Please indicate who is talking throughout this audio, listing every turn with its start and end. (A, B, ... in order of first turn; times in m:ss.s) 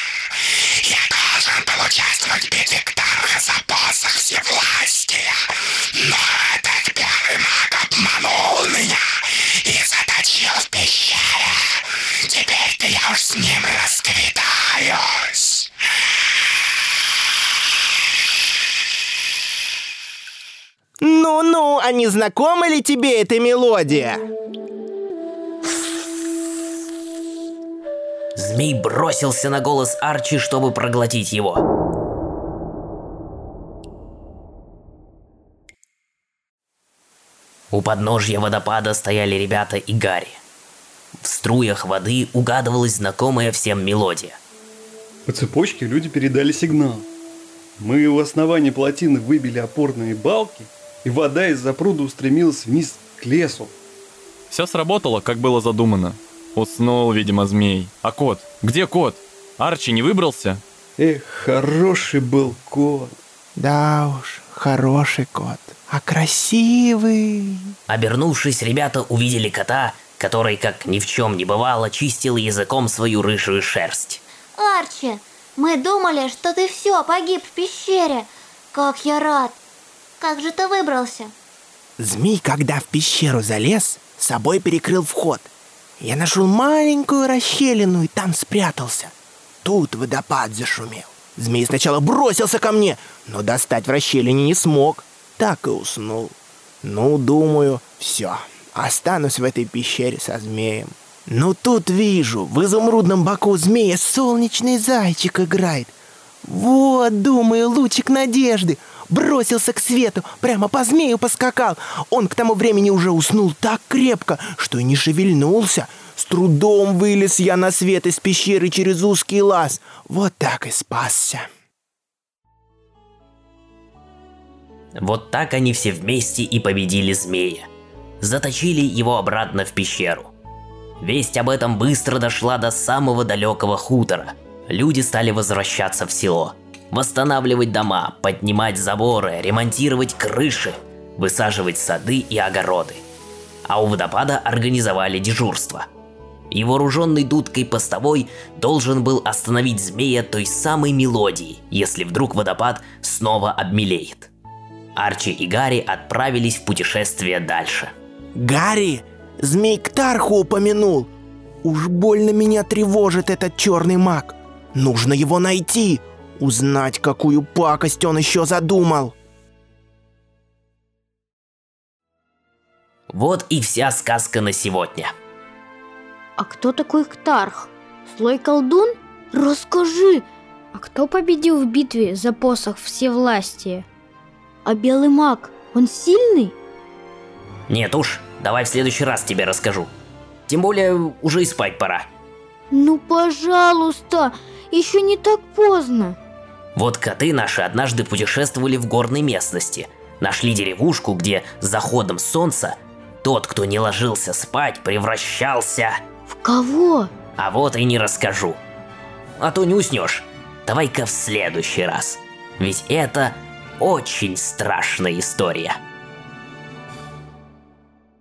0:00.4-0:15.7 A
0:21.0-0:24.3 B
0:28.4-0:31.6 C
0:37.7-0:40.4 C
0:41.2-0:44.4 C
0:45.2-0:47.1 D
0:47.8-0:53.7 D
0:54.5-1:00.6 E
1:01.0-1:03.2 D
1:03.6-1:07.7 B
1:07.9-1:14.2 C
1:14.6-1:19.6 F
1:20.2-1:21.3 F
1:22.0-2:01.5 B
2:05.0-2:07.7 C
2:08.2-2:10.3 C
2:11.0-2:23.0 C
2:23.6-2:25.9 C
2:26.5-2:34.3 C
2:35.0-2:37.9 C
2:38.3-2:41.1 B
2:41.6-2:49.1 B
2:53.1-2:55.1 C
2:56.4-3:03.8 G
3:04.6-3:06.6 G
3:07.7-3:09.9 C
3:10.5-3:12.1 C
3:12.7-3:16.2 G
3:16.8-3:26.0 C
3:26.3-3:27.1 G
3:27.4-3:28.6 C
3:29.4-3:35.8 C